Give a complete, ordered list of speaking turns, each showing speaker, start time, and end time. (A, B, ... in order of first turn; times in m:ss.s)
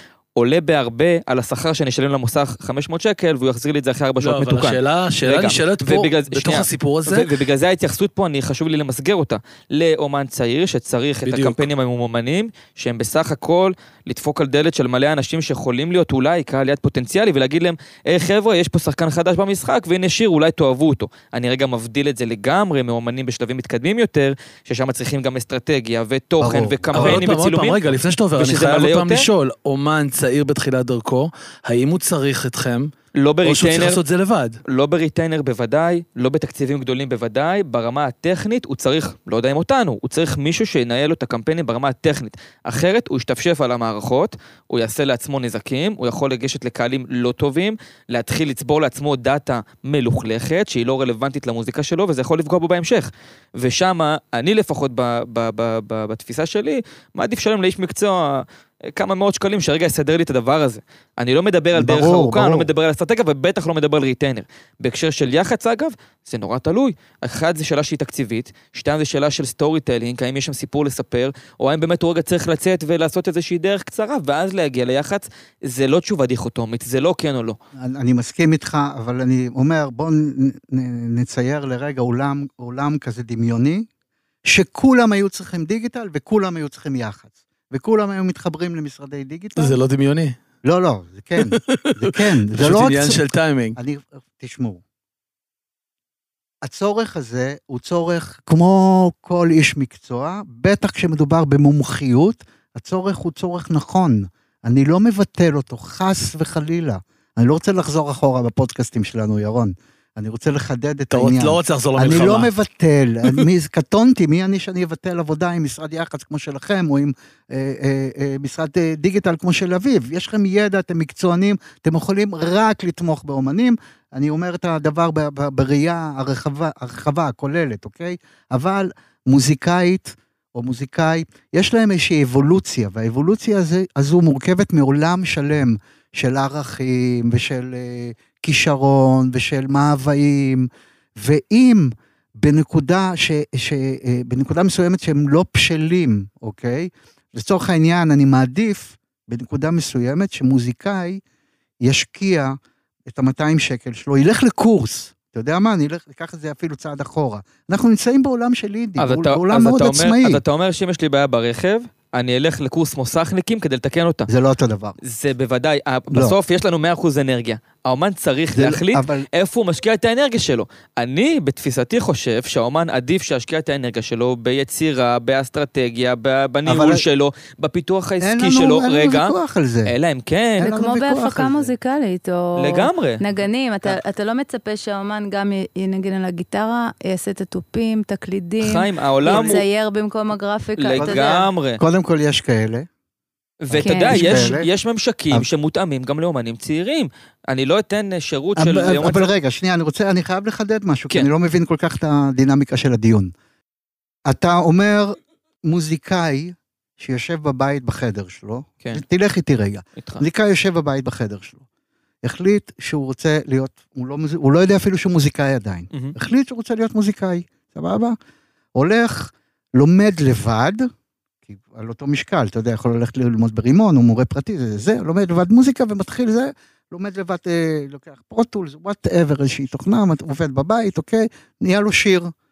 0:00.4-0:27.8 A
0:04.2-0:07.3 B
0:11.2-0:11.6 B
0:26.4-0:27.3 C
0:26.9-0:32.9 B
0:28.4-0:29.3 A
0:33.1-0:34.0 A
0:33.4-0:34.6 B
0:34.7-1:17.6 A
1:01.8-1:02.7 C
1:17.8-1:23.9 C
1:24.4-1:29.8 C
1:29.6-1:30.4 B
1:30.6-1:33.2 C
1:31.4-1:33.8 B
1:33.8-1:34.8 C
1:36.6-2:31.2 C
1:51.1-1:52.5 B
2:31.8-2:32.6 C
2:33.1-2:40.4 C
2:39.0-2:44.3 A
2:44.3-2:45.0 C
2:45.0-2:59.3 A
2:48.5-2:49.3 C
2:56.6-2:57.0 C
2:58.2-2:59.9 C
2:59.8-3:00.7 A
3:00.6-3:01.7 C
3:00.6-3:11.4 D
3:02.6-3:03.2 A
3:08.6-3:09.6 A
3:09.2-3:09.6 C
3:10.8-3:11.8 A
3:11.0-3:12.9 C
3:13.6-3:19.3 A
3:13.7-3:14.6 C
3:13.8-3:14.5 D
3:18.6-3:23.3 C
3:24.3-3:31.6 C
3:32.2-3:38.2 C
3:38.7-3:40.9 C
3:41.5-3:52.3 C